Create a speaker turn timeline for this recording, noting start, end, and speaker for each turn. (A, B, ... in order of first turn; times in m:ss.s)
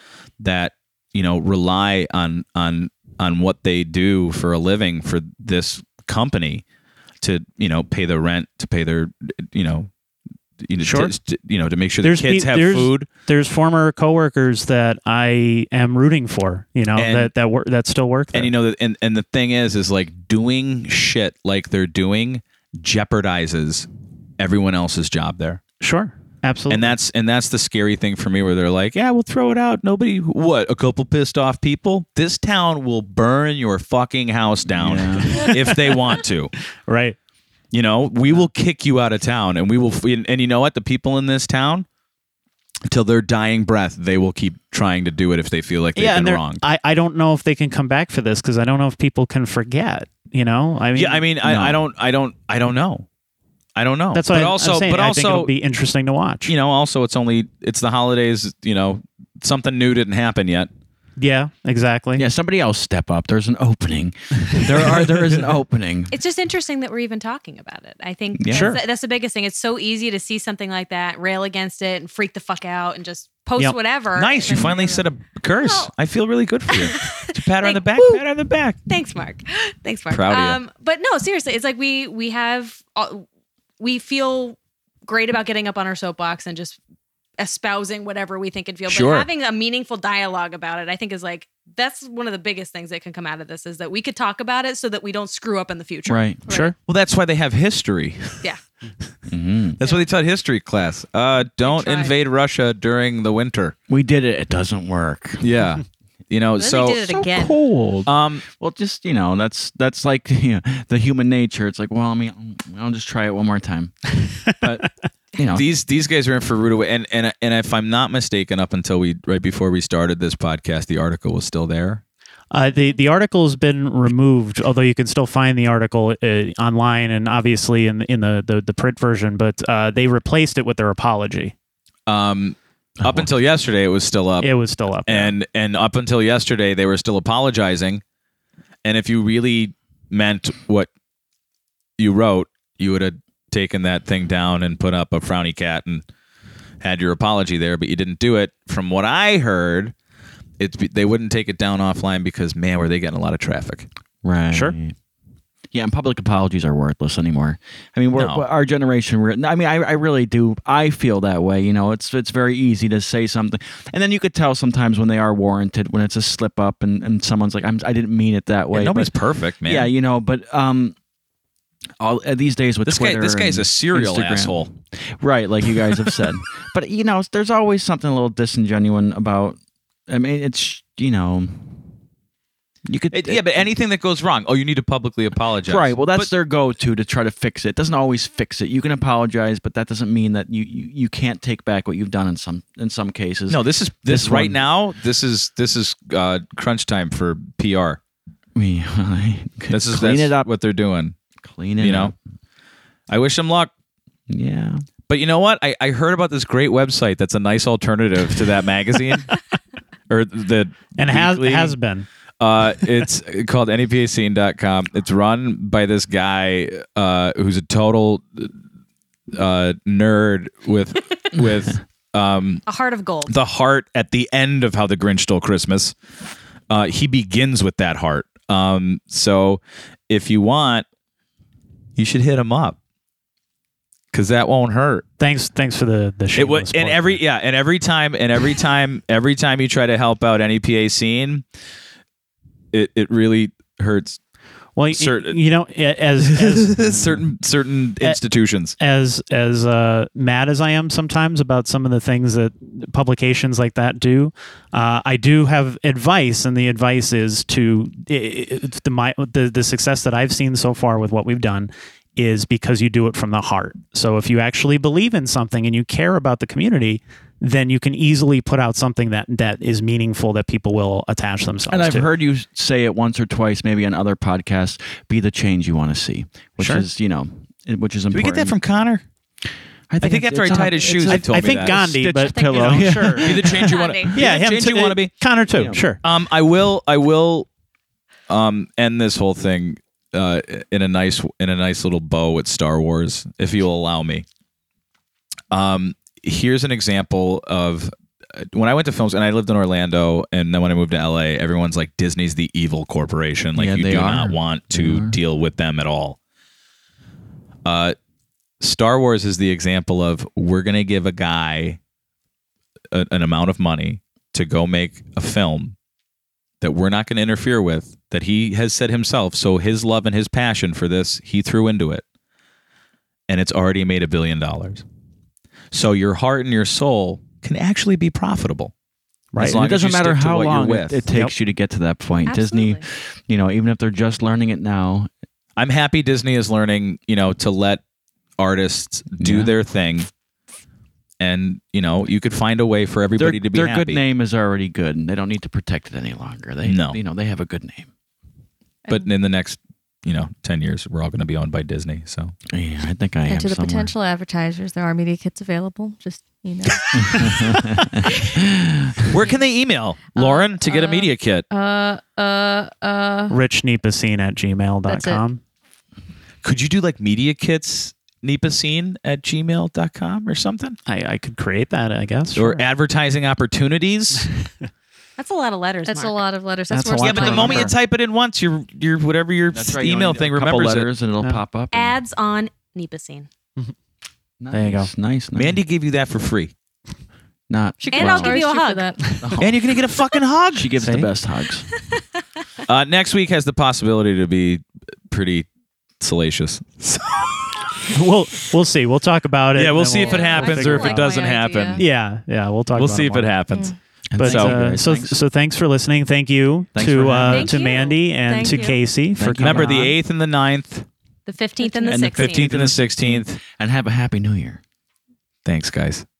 0:00.4-0:06.6 A
0:07.2-0:09.9 A
0:10.6-0:13.1 A
0:10.8-0:11.1 B
0:12.0-0:18.5 B
0:17.0-0:17.3 A
0:18.3-0:23.9 A
0:24.4-0:25.6 A
0:25.8-0:27.0 B
0:26.7-0:36.5 A
0:34.7-0:35.5 C
0:35.3-0:36.2 B
0:36.8-0:37.2 B
0:37.7-0:41.8 A
0:42.9-0:46.6 A
0:46.0-0:51.3 B
0:50.9-0:53.0 A
0:51.4-0:51.8 C
0:53.8-0:55.5 A
0:54.1-0:56.5 B
0:56.4-1:00.7 A
1:01.2-1:02.2 B
1:02.2-1:06.1 C
1:06.1-1:15.0 D
1:08.4-1:08.8 C
1:08.5-1:08.8 B
1:14.1-1:18.8 A
1:15.6-1:15.9 D
1:16.7-1:18.2 D
1:18.8-1:23.2 D
1:20.1-1:20.6 A
1:23.8-1:26.8 D
1:27.4-1:36.2 D
1:28.9-1:29.3 A
1:36.1-1:36.4 C
1:36.5-1:36.7 B
1:36.8-1:38.4 A
1:39.3-1:39.8 C
1:39.8-1:43.7 A
1:41.6-1:42.1 E
1:43.9-1:45.5 C
1:45.4-1:47.0 A
1:46.6-1:47.6 E
1:47.0-1:55.6 C
1:48.0-1:48.4 A
1:55.5-2:02.0 A
2:02.5-2:11.5 B
2:12.1-2:14.5 A
2:13.0-2:13.3 C
2:14.4-2:15.3 B
2:15.0-2:18.0 A
2:18.8-2:20.9 A
2:22.0-2:26.0 A
2:26.8-2:29.9 A
2:30.6-2:33.9 A
2:34.2-2:34.9 C
2:34.5-2:34.8 B
2:35.7-2:49.1 C
2:38.1-2:38.4 A
2:48.7-2:49.9 A
2:49.6-2:50.9 C
2:52.0-3:01.8 C
2:52.8-2:54.7 A
3:02.8-3:03.7 C
3:03.1-3:06.3 A
3:05.7-3:14.6 C
3:13.5-3:18.0 A
3:18.5-3:20.4 C
3:19.7-3:21.2 A
3:21.4-3:22.1 C
3:21.8-3:22.1 A
3:23.1-3:23.7 A
3:24.3-3:24.8 C
3:25.1-3:29.4 A
3:30.1-3:31.7 A
3:31.0-3:32.1 B
3:32.4-3:38.5 A
3:39.3-3:42.6 A
3:42.6-3:43.3 D
3:43.2-3:45.9 A
3:46.7-3:50.8 A
3:52.0-3:52.8 A
3:54.1-3:55.0 A
3:55.2-3:57.2 B
3:56.4-4:01.4 A
4:02.7-4:04.2 A
4:04.8-4:07.1 B
4:04.9-4:05.4 A
4:06.2-4:08.8 A
4:06.8-4:07.2 C
4:08.8-4:32.1 B
4:31.7-4:38.5 C
4:36.6-4:36.8 B
4:38.1-4:39.0 A
4:39.9-4:43.8 C
4:40.0-4:41.8 A
4:40.0-4:43.5 B
4:42.4-4:45.1 A
4:43.5-4:44.2 D
4:44.1-4:46.0 B
4:45.5-4:45.8 C
4:46.0-4:47.5 A
4:48.3-4:54.2 A
4:55.5-5:06.2 A
5:03.6-5:05.2 C
5:07.6-5:08.0 A
5:08.6-5:11.8 A
5:12.9-5:15.7 A
5:16.6-5:22.0 A
5:23.3-5:24.8 A
5:25.7-5:28.7 A
5:29.3-5:29.6 B
5:29.4-5:31.0 A
5:29.4-5:35.1 C
5:32.2-5:32.8 D
5:35.6-5:37.8 A
5:38.4-5:40.1 A
5:39.2-5:39.5 C
5:41.2-5:44.0 A
5:43.2-5:47.9 C
5:46.6-5:47.0 A
5:48.9-5:52.3 A
5:52.5-5:53.9 C
5:53.3-5:58.3 E
5:56.9-5:57.6 A
5:56.9-5:59.1 C
5:59.0-6:01.4 A
6:00.1-6:03.4 E
6:03.3-6:05.4 B
6:04.8-6:05.2 E
6:06.4-6:10.8 A
6:10.8-6:12.6 B
6:12.3-6:14.3 A
6:15.2-6:16.2 D
6:15.8-6:17.7 E
6:16.7-6:17.7 C
6:17.0-6:20.9 A
6:19.5-6:22.0 C
6:21.7-6:23.3 D
6:24.4-6:25.6 C
6:24.5-6:24.9 B
6:25.3-6:26.5 A
6:27.5-6:28.4 C
6:27.8-6:29.2 E
6:27.9-6:29.0 D
6:29.2-6:29.6 C
6:29.4-6:30.9 A
6:30.5-6:31.7 C
6:30.8-6:31.1 B
6:31.7-6:32.0 D
6:32.7-6:35.5 A
6:36.0-6:37.8 A
6:37.9-6:41.1 B
6:39.5-6:41.8 A
6:40.0-6:41.8 E
6:41.8-6:43.3 B
6:42.7-6:44.6 A
6:44.1-6:45.1 C
6:44.2-6:49.9 B
6:46.7-6:47.6 C
6:47.2-6:48.8 D
6:49.2-6:49.9 C
6:49.4-6:50.8 A
6:51.2-6:52.6 D
6:51.8-6:54.6 C
6:51.9-6:53.4 A
6:55.4-6:56.0 A